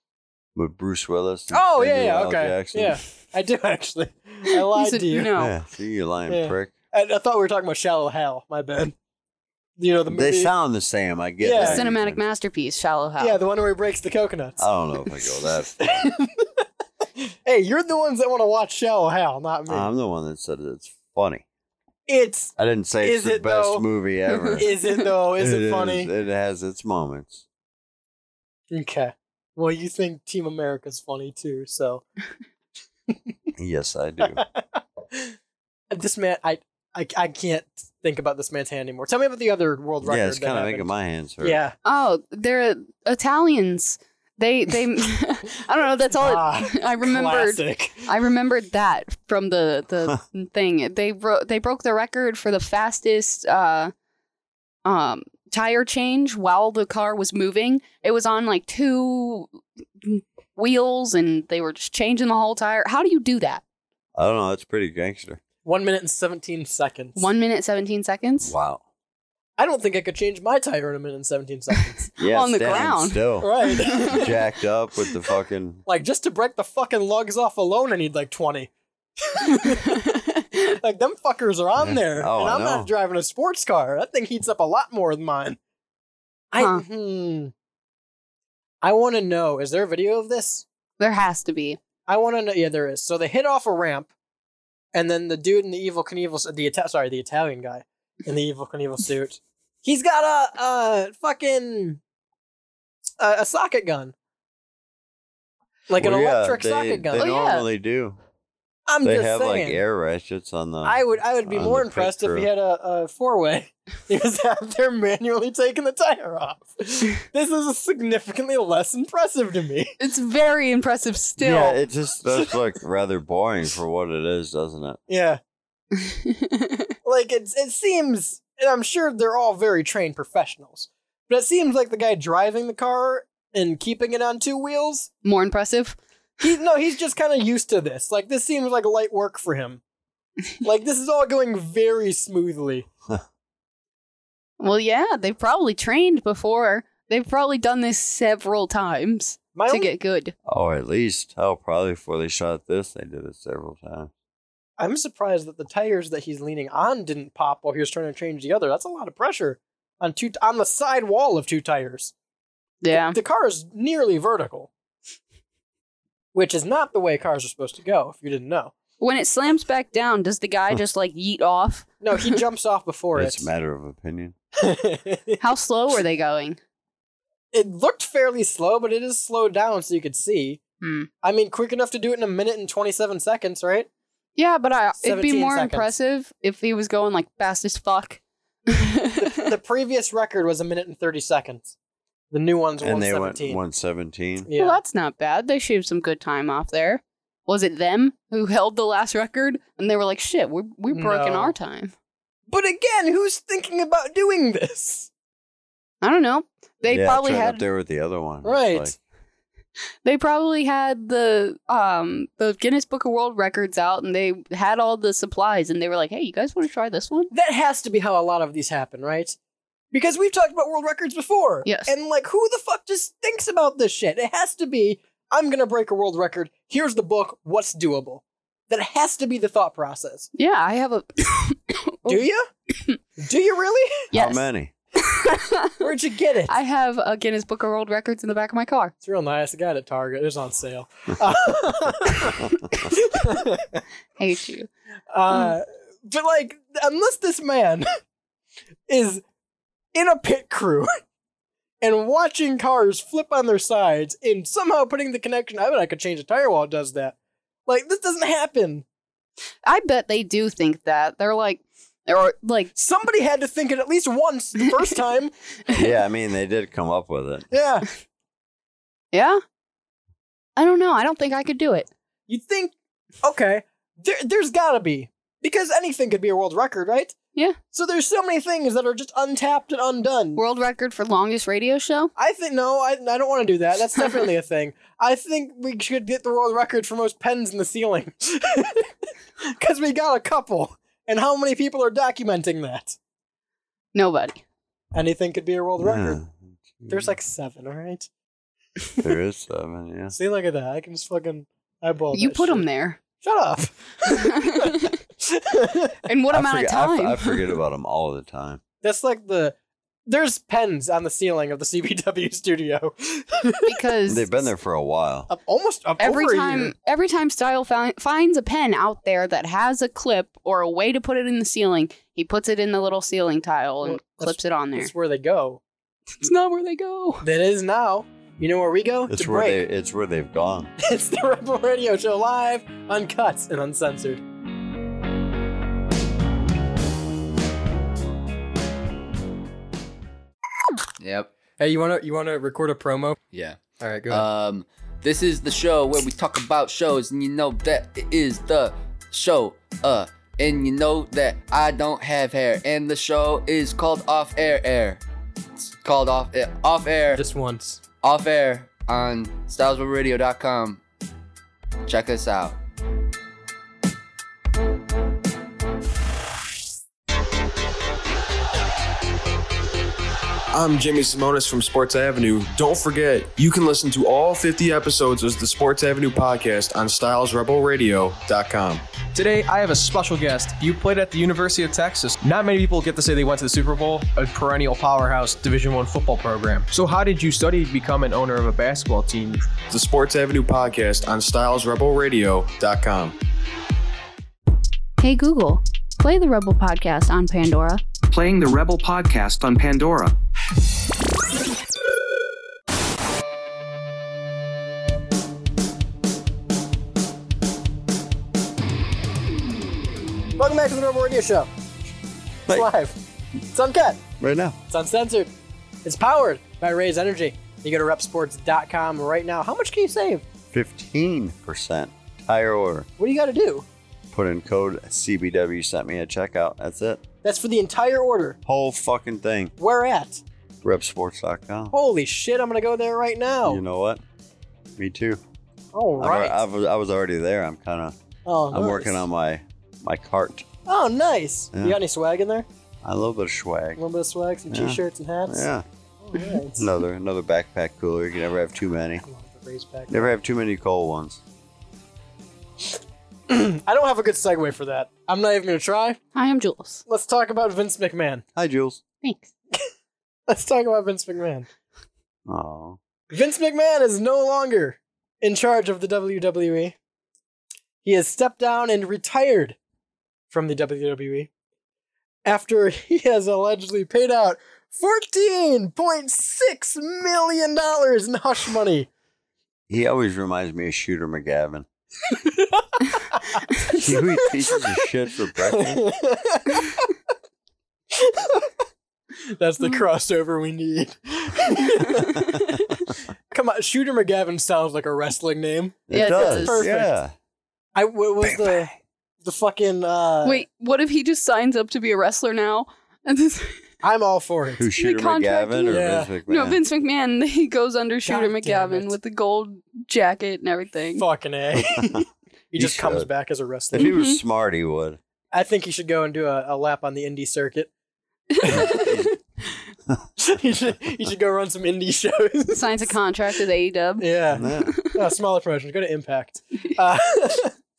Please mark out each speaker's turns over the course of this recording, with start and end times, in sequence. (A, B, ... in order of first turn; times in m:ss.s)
0:00.6-0:03.0 A
0:01.5-0:05.3 B
0:04.5-0:05.5 C
0:05.4-0:06.7 A
0:06.3-0:09.0 B
0:09.8-0:10.5 B
0:10.1-0:12.2 A
0:11.4-0:11.8 B
0:11.6-0:13.4 C
0:13.2-0:14.6 B
0:14.6-0:15.8 A
0:15.8-0:16.6 B
0:17.5-0:19.9 B
0:19.7-0:21.4 A
0:22.1-0:23.9 B
0:22.6-0:24.7 A
0:24.4-0:24.7 C
0:24.6-0:26.1 B
0:25.4-0:27.4 A
0:28.7-0:32.0 B
0:33.6-0:34.4 A
0:34.2-0:35.3 B
0:35.9-0:40.9 B
0:40.0-0:41.6 A
0:41.4-0:41.8 B
0:41.8-0:53.9 C
0:46.2-0:48.1 B
0:54.8-1:03.6 C
1:04.2-1:05.4 A
1:05.6-1:07.3 B
1:07.2-1:08.5 C
1:08.4-1:08.8 A
1:09.6-1:12.1 B
1:12.2-1:15.8 A
1:12.3-1:14.0 C
1:13.4-1:14.3 B
1:15.9-1:18.7 B
1:19.2-1:25.6 B
1:19.5-1:20.1 C
1:21.8-1:22.9 A
1:26.5-1:27.5 B
1:26.6-1:26.8 C
1:28.8-1:30.6 B
1:31.0-1:31.8 C
1:32.1-1:34.1 B
1:34.9-1:42.0 B
1:43.2-1:44.1 B
1:45.9-1:47.2 B
1:46.0-1:48.2 A
1:47.2-1:47.7 C
1:48.9-1:49.8 B
1:49.0-1:52.5 A
1:50.8-2:00.0 B
2:00.0-2:01.8 C
2:01.4-2:05.0 A
2:05.1-2:05.4 B
2:06.1-2:06.8 C
2:07.0-2:15.1 B
2:15.2-2:16.0 C
2:16.4-2:19.8 B
2:20.6-2:22.9 B
2:24.6-2:30.3 C
2:29.5-2:29.9 B
2:30.5-2:34.1 A
2:34.8-2:42.1 B
2:42.8-2:43.2 C
2:42.9-2:44.7 B
2:46.3-2:48.7 B
2:49.0-2:52.4 C
2:52.0-2:53.5 B
2:53.2-2:54.4 A
2:54.6-2:55.4 B
2:55.4-2:56.6 C
2:57.5-3:00.6 B
3:00.8-3:01.1 C
3:01.2-3:03.9 B
3:04.4-3:09.4 C
3:05.0-3:05.9 B
3:09.2-3:11.8 B
3:12.3-3:13.6 B
3:12.8-3:14.5 A
3:14.4-3:14.8 B
3:14.6-3:21.9 C
3:20.9-3:21.6 B
3:22.5-3:25.1 B
3:26.0-3:27.6 C
3:26.9-3:29.0 A
3:28.4-3:29.0 B
3:30.0-3:37.3 C
3:37.3-3:39.4 B
3:39.9-3:50.3 B
3:41.6-3:41.9 C
3:50.4-3:52.2 C
3:52.1-3:52.5 B
3:53.2-3:54.1 B
3:54.1-3:54.4 C
3:54.1-3:54.7 A
3:55.1-3:55.7 C
3:55.8-3:56.5 B
3:56.5-3:58.9 C
3:59.0-4:03.8 B
4:04.2-4:04.7 C
4:05.1-4:07.9 B
4:05.3-4:05.6 C
4:08.9-4:09.2 B
4:09.9-4:10.9 B
4:11.8-4:17.2 B
4:17.7-4:18.8 B
4:19.6-4:22.7 C
4:22.8-4:25.3 B
4:25.7-4:27.5 A
4:27.5-4:27.9 B
4:29.1-4:29.4 C
4:30.6-4:31.9 C
4:32.3-4:37.2 B
4:37.7-4:40.4 B
4:40.4-4:42.1 C
4:42.2-4:48.9 B
4:49.4-4:53.0 B
4:53.9-4:54.4 C
4:54.9-4:56.2 B
4:55.8-4:57.1 A
4:56.9-4:58.1 B
4:59.0-5:00.2 A
5:00.1-5:02.6 B
5:02.1-5:03.0 C
5:03.2-5:06.0 B
5:04.1-5:04.9 C
5:06.1-5:07.4 C
5:06.3-5:08.6 A
5:08.8-5:09.6 B
5:10.1-5:13.8 B
5:13.7-5:14.3 C
5:14.1-5:15.3 A
5:15.3-5:16.7 B
5:16.0-5:24.9 C
5:23.8-5:25.6 B
5:26.2-5:27.2 C
5:27.2-5:29.6 B
5:29.1-5:30.7 A
5:30.8-5:34.2 B
5:41.0-5:41.3 D
5:41.6-5:43.2 B
5:43.3-5:55.0 D
5:43.8-5:44.3 B
5:55.6-5:57.2 D
5:57.1-5:57.8 B
5:58.0-6:00.8 D
6:01.9-6:02.6 D
6:10.5-6:18.8 E
6:19.1-6:29.4 F
6:29.7-6:33.2 E
6:35.0-6:37.8 C
6:38.1-6:40.2 G
6:50.4-6:51.5 B
6:52.5-6:53.0 B
6:53.5-6:54.0 B
6:54.2-6:54.6 A
6:54.7-6:55.3 B
6:55.8-7:00.2 B
7:00.5-7:02.9 A
7:03.0-7:03.7 B
7:04.1-7:07.0 A
7:07.2-7:08.4 B
7:08.5-7:09.5 A
7:09.6-7:10.2 B
7:10.6-7:11.7 A
7:11.7-7:13.6 B
7:13.4-7:14.0 A
7:14.8-7:15.2 A
7:15.7-7:16.4 B
7:16.0-7:18.0 A
7:18.3-7:19.0 B
7:18.5-7:20.5 A
7:20.7-7:22.5 B
7:22.8-7:23.8 A
7:23.8-7:25.5 B
7:24.5-7:25.6 A
7:26.0-7:26.6 B
7:26.6-7:29.0 A
7:29.0-7:30.1 B
7:29.9-7:31.2 A
7:33.3-7:36.0 B
7:36.2-7:36.8 C
7:36.9-7:38.2 B
7:38.4-7:38.8 A
7:39.0-7:39.3 C
7:40.3-7:41.5 B
7:42.3-7:42.8 A
7:43.1-7:46.8 B
7:47.8-7:49.6 B
7:50.3-7:51.3 B
7:52.3-7:58.9 B
7:59.7-8:01.7 A
8:02.3-8:02.6 B
8:03.7-8:05.8 A
8:03.7-8:04.2 B
8:05.5-8:06.9 B
8:07.9-8:08.5 B
8:09.4-8:12.4 B
8:13.3-8:16.9 B
8:15.9-8:17.1 A
8:15.9-8:16.7 C
8:17.8-8:18.7 B
8:18.2-8:18.6 A
8:19.2-8:20.4 B
8:20.2-8:23.6 C
8:23.8-8:24.6 B
8:24.6-8:26.6 A
8:24.8-8:31.0 C
8:25.7-8:26.1 B
8:28.0-8:29.0 B
8:31.0-8:33.9 B
8:31.6-8:32.0 A
8:32.6-8:33.1 A
8:33.7-8:35.0 A
8:33.8-8:34.2 C
8:35.3-8:37.7 B
8:38.4-8:39.2 B
8:38.5-8:39.1 A
8:40.2-8:43.0 B
8:42.5-8:44.9 C
8:44.0-8:47.5 B
8:44.3-8:44.7 A